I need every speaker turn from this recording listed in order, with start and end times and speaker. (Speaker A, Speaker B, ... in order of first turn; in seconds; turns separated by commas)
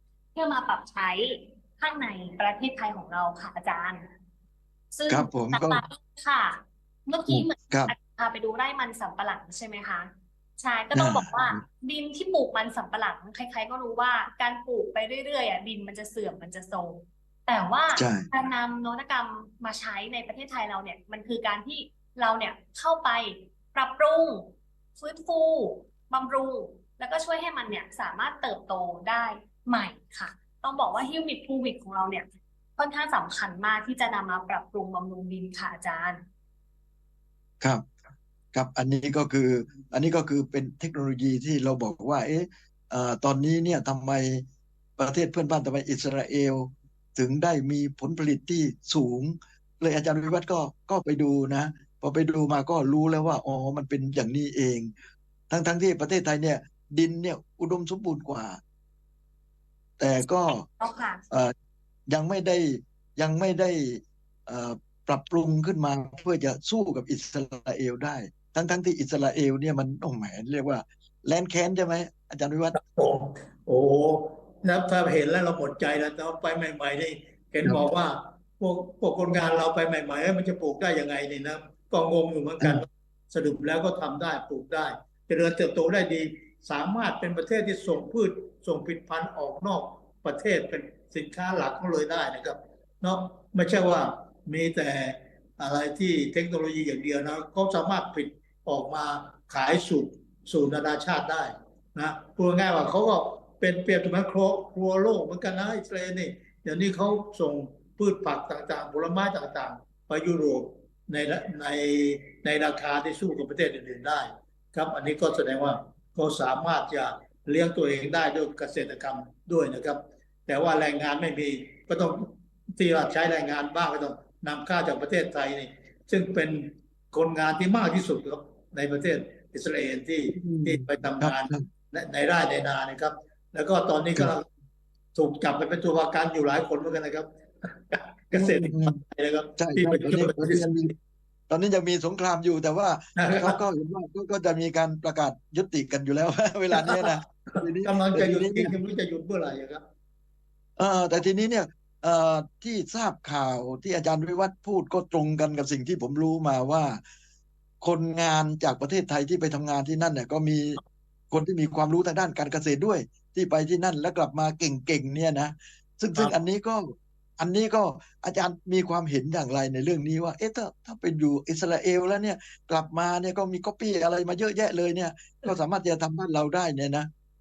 Speaker A: 0.3-4.1, Speaker A: 4.9-32.2, Speaker B: 5.1-5.8, Speaker B: 7.3-7.9, Speaker B: 10.9-11.6, Speaker B: 17.9-18.3, Speaker A: 32.8-36.2, Speaker B: 37.6-37.9, Speaker B: 38.5-44.4, Speaker B: 45.0-54.9, Speaker B: 55.5-58.6, Speaker B: 60.0-60.6, Speaker A: 60.6-61.2, Speaker B: 62.1-72.8, Speaker C: 72.7-134.5, Speaker B: 130.3-131.7, Speaker C: 135.1-140.7, Speaker B: 138.3-139.0, Speaker B: 139.6-140.9, Speaker B: 141.5-148.7, Speaker C: 143.2-143.6, Speaker C: 146.7-149.8, Speaker B: 150.8-157.0, Speaker B: 157.8-160.8, Speaker B: 161.3-177.1